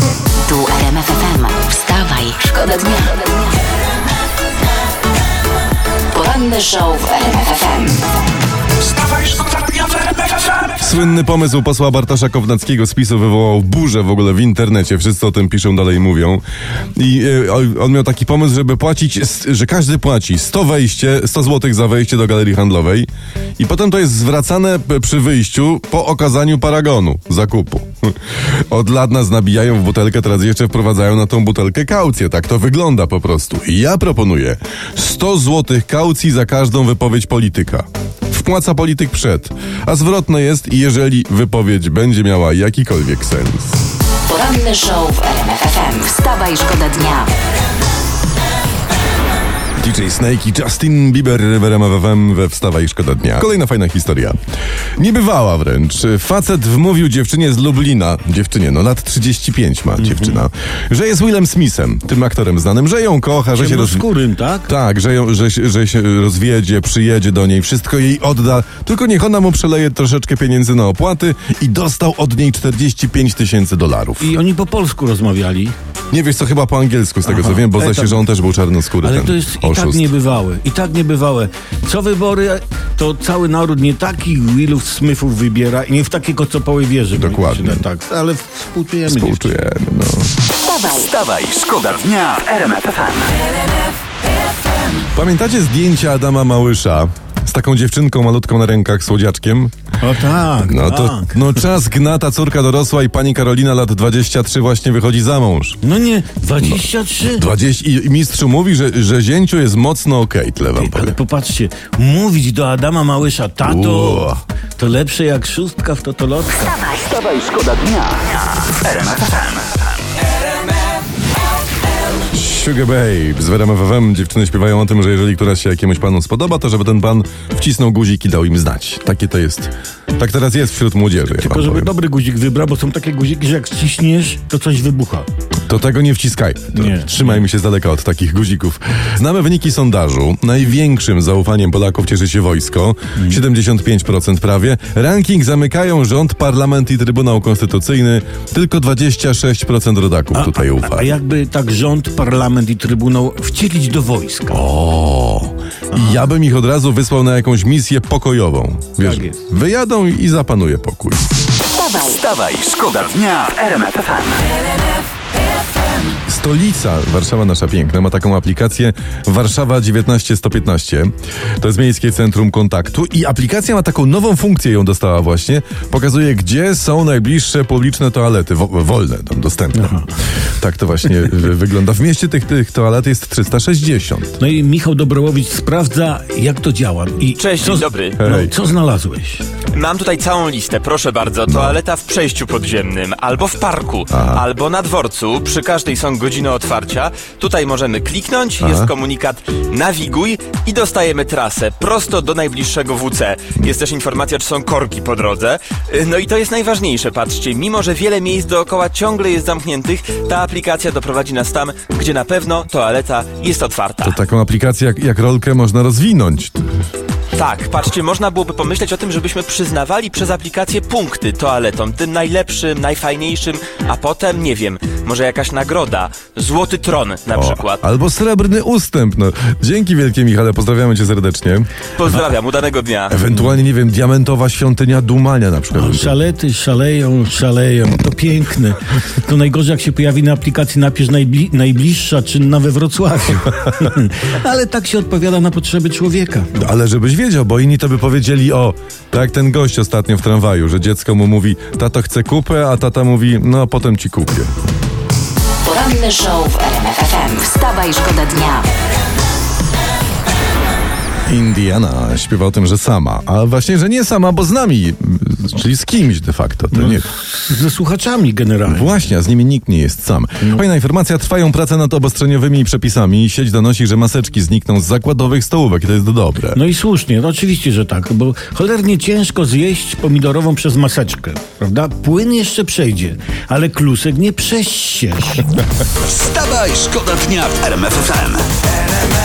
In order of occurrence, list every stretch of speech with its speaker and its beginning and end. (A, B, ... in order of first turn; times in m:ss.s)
0:00.4-0:03.3 A
0:06.1-0:08.0 A
0:10.7-0:16.4 B
0:16.9-0:43.8 B
0:44.2-0:47.3 A
0:49.8-0:54.4 B
0:55.0-1:04.0 B
1:00.0-1:00.4 C
1:03.5-1:04.7 C
1:04.7-1:14.3 B
1:14.2-1:15.8 C
1:16.1-1:20.1 B
1:17.2-1:18.2 C
1:19.0-1:29.6 C
1:27.1-1:27.9 B
1:29.1-1:30.3 B
1:30.6-1:31.1 A
1:30.8-1:33.3 D
1:35.1-1:39.7 B
1:40.0-1:41.7 C
1:40.6-1:45.8 B
1:45.8-1:47.5 C
1:46.6-1:51.2 B
1:50.7-1:56.9 C
1:53.6-1:54.4 B
1:56.9-1:59.9 D
2:02.3-2:11.9 B
2:11.3-2:15.3 C
2:15.7-2:31.1 B
2:16.7-2:17.4 C
2:23.1-2:23.4 C
2:30.3-2:34.6 C
2:34.5-2:41.2 B
2:35.9-2:36.2 C
2:39.0-2:39.4 C
2:41.7-2:42.2 A
2:42.0-2:44.5 D
2:46.3-3:00.0 B
2:59.7-3:00.1 C
3:00.6-3:04.4 B
3:04.4-3:09.4 C
3:07.4-3:08.2 E
3:08.2-3:08.5 B
3:09.7-3:34.2 E
3:11.5-3:11.8 B
3:14.1-3:14.4 B
3:18.6-3:18.9 B
3:34.0-3:36.6 B
3:37.3-3:47.8 E
3:47.3-3:51.7 B
3:52.0-3:53.2 E
3:53.1-3:56.2 B
3:55.7-4:06.5 C
4:06.5-4:14.5 B
4:15.6-4:18.7 A
4:21.3-4:27.1 B
4:26.7-4:28.9 C
4:28.6-4:36.6 B
4:36.5-4:45.5 C
4:46.0-4:48.5 D